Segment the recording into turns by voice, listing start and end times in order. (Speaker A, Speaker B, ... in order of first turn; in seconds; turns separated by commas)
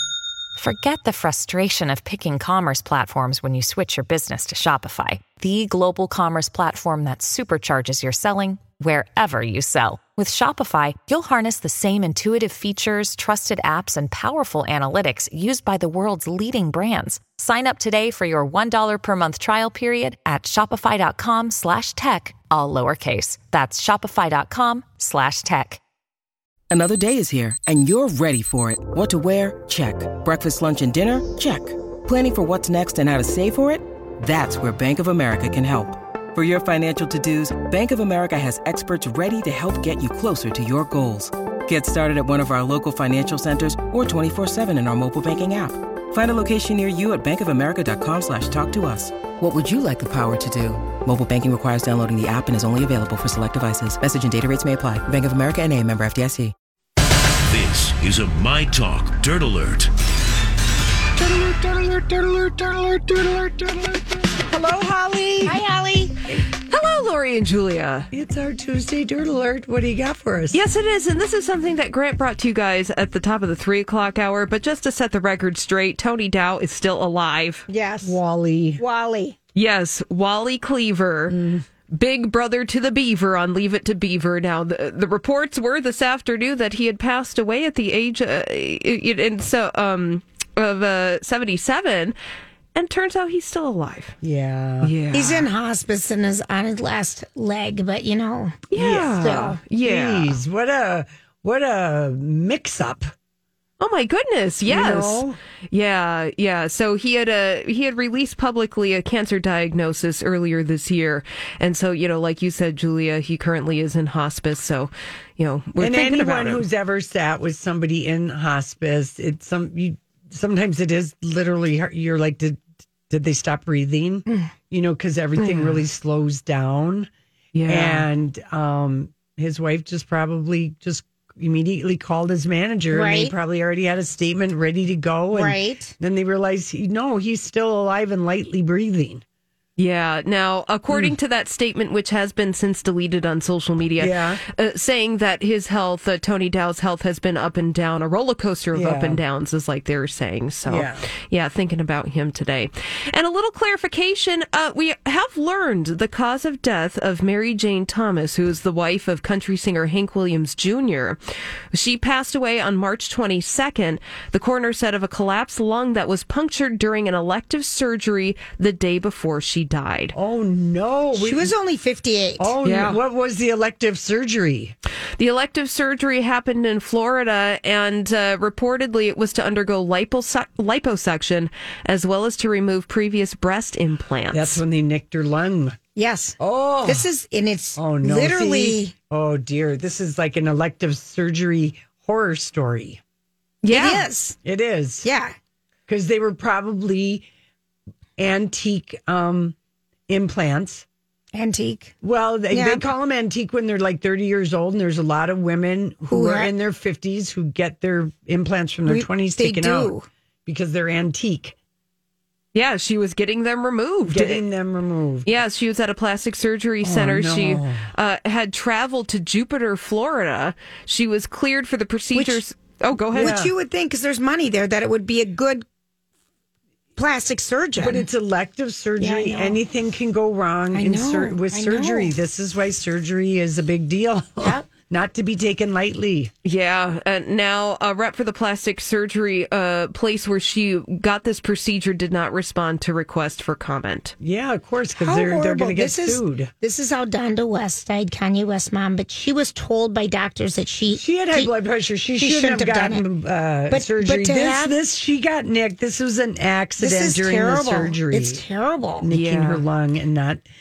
Speaker A: 0.6-25.8, Speaker B: 26.7-56.5, Speaker C: 57.5-59.9, Speaker D: 61.2-65.6, Speaker E: 65.4-66.2, Speaker F: 66.5-68.1, Speaker D: 68.1-70.6, Speaker F: 70.5-77.7, Speaker E: 77.7-78.2, Speaker D: 78.0-78.8, Speaker E: 78.8-79.4, Speaker F: 79.5-92.2, Speaker D: 81.3-81.6, Speaker F: 92.8-94.2, Speaker D: 94.2-94.9, Speaker F: 94.8-95.5, Speaker E: 95.1-99.6, Speaker F: 98.7-100.4, Speaker D: 98.7-103.1, Speaker F: 103.8-116.6, Speaker D: 104.7-105.4, Speaker D: 115.8-127.1, Speaker F: 125.4-125.8, Speaker F: 127.5-128.1, Speaker D: 127.7-139.2, Speaker E: 132.9-133.3, Speaker E: 135.3-135.9, Speaker F: 139.8-161.2, Speaker D: 140.9-141.2, Speaker D: 144.0-144.4, Speaker D: 148.7-149.2, Speaker D: 150.7-151.0, Speaker F: 161.7-170.1, Speaker D: 170.1-171.5, Speaker E: 171.2-172.5, Speaker D: 172.4-174.8, Speaker F: 172.7-173.0, Speaker F: 175.2-184.6, Speaker D: 184.3-185.8, Speaker E: 186.0-188.9, Speaker D: 186.4-187.1, Speaker D: 187.8-193.0, Speaker F: 193.6-194.1, Speaker E: 193.7-194.4, Speaker D: 194.4-195.1, Speaker E: 195.0-195.3, Speaker D: 195.9-197.3, Speaker D: 198.2-199.6, Speaker D: 200.1-200.9, Speaker E: 201.3-201.9, Speaker D: 202.0-209.9, Speaker E: 202.5-202.8, Speaker E: 206.1-206.5, Speaker E: 208.9-210.1, Speaker D: 210.5-211.6, Speaker F: 212.5-214.4, Speaker D: 214.1-215.4, Speaker F: 215.2-223.4, Speaker D: 216.8-217.8, Speaker E: 222.1-222.4, Speaker D: 223.1-223.5, Speaker E: 223.1-225.7, Speaker E: 227.0-228.1, Speaker D: 227.8-236.3, Speaker E: 229.0-229.6, Speaker E: 230.7-232.1, Speaker E: 234.4-234.7, Speaker F: 236.4-244.1, Speaker D: 244.2-246.5, Speaker E: 245.0-251.5, Speaker D: 250.9-258.4, Speaker E: 252.2-253.1, Speaker E: 253.7-254.8, Speaker E: 256.8-259.1, Speaker D: 259.0-260.4, Speaker F: 259.1-259.6